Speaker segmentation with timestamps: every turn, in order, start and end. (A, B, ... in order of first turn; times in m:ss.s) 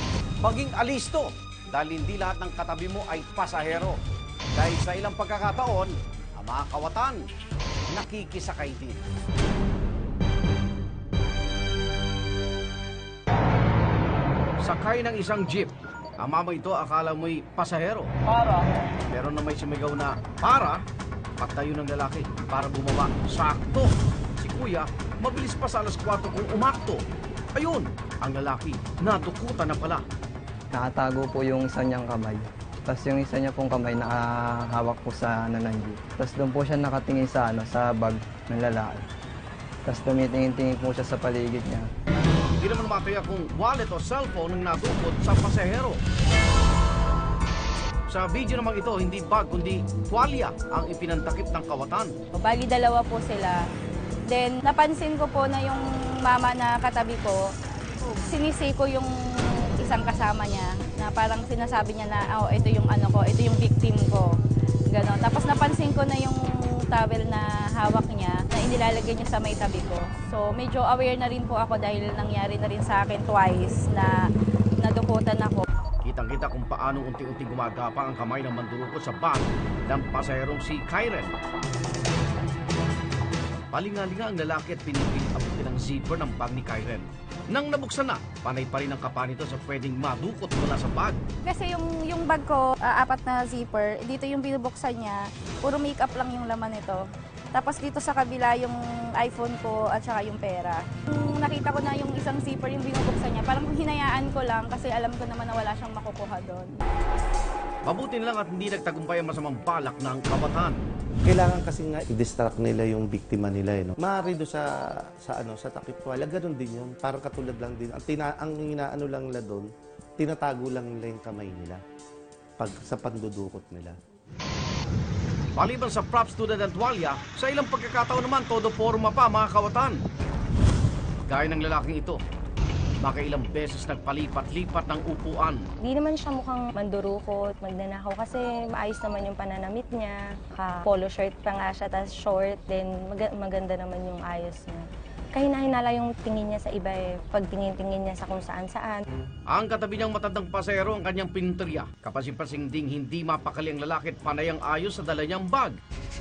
0:00.4-0:04.0 A
0:04.5-0:07.2 A
0:07.9-0:09.0 A
0:14.6-0:18.1 A
0:19.1-0:20.8 A
0:21.4-0:27.0 A
0:27.5-0:30.0 A
0:30.7-0:39.0 B
0:39.8-0:41.9 B
0:42.6-0:46.0 A
0:48.1-0:52.1 A
0:52.3-0:53.6 C
0:54.3-0:57.5 C
0:58.3-1:04.4 C
1:04.9-1:14.2 C
1:14.8-1:15.6 C
1:16.0-1:21.3 A
1:23.7-1:31.2 A
1:31.4-1:46.7 C
1:47.8-1:50.8 A
1:51.2-1:54.7 D
1:55.2-2:01.8 D
2:02.6-2:04.0 D
2:05.6-2:10.0 A
2:11.2-2:12.2 A
2:13.0-2:15.7 A
2:15.8-2:29.0 E
2:29.5-2:35.8 A